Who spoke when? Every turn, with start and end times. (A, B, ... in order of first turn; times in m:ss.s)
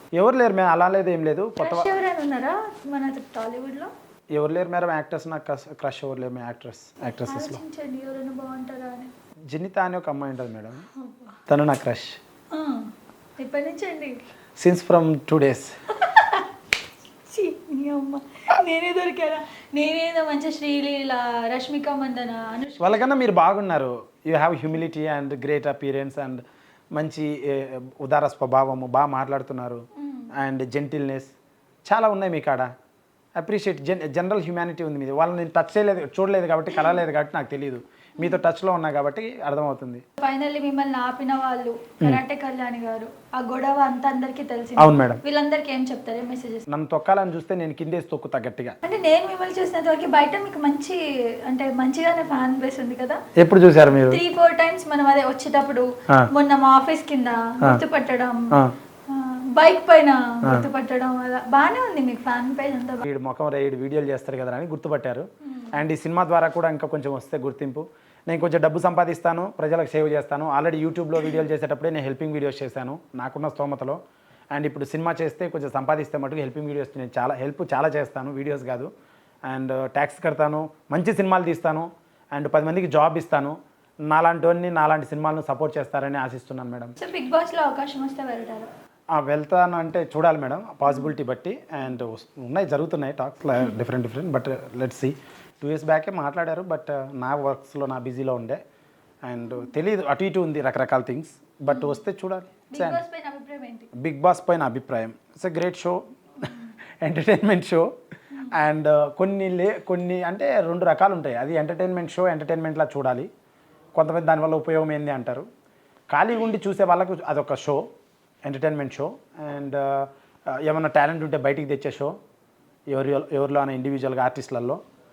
0:00.2-0:01.9 A
0:01.6-0:03.9 B
0:04.3-0:07.6 A
0:07.3-0:09.1 B
0:09.5-0:10.8 A
0:11.0-0:11.3 B
0:11.5-0:12.2 A
0:12.5-0:14.2 B
0:14.6-0:15.7 A
0:16.0-0:16.5 B
0:17.3-0:23.1 B
0:22.8-0:26.4 A
0:27.0-0:29.8 A
0:30.0-0:30.3 B
0:30.4-0:31.3 A
0:31.9-0:32.7 A
0:33.4-0:40.0 A
0:40.2-0:46.6 B
0:44.8-0:45.2 A
0:46.7-0:48.8 A
0:48.8-0:53.2 B
0:53.4-0:54.2 A
0:54.1-0:58.4 B
0:59.1-1:03.0 B
1:03.0-1:14.0 A
1:05.5-1:05.7 B
1:14.5-1:18.9 A
1:19.5-1:23.6 A
1:24.1-1:27.0 A
1:27.0-1:28.7 B
1:29.2-1:38.6 A
1:39.3-1:43.0 A
1:41.7-1:42.0 B
1:42.7-1:43.9 B
1:44.0-1:46.5 A
1:46.4-1:46.7 B
1:47.0-1:47.8 A
1:48.5-1:53.3 A
1:54.0-1:55.5 A
1:56.1-1:57.8 A
1:58.4-2:02.1 A
2:02.9-2:04.8 A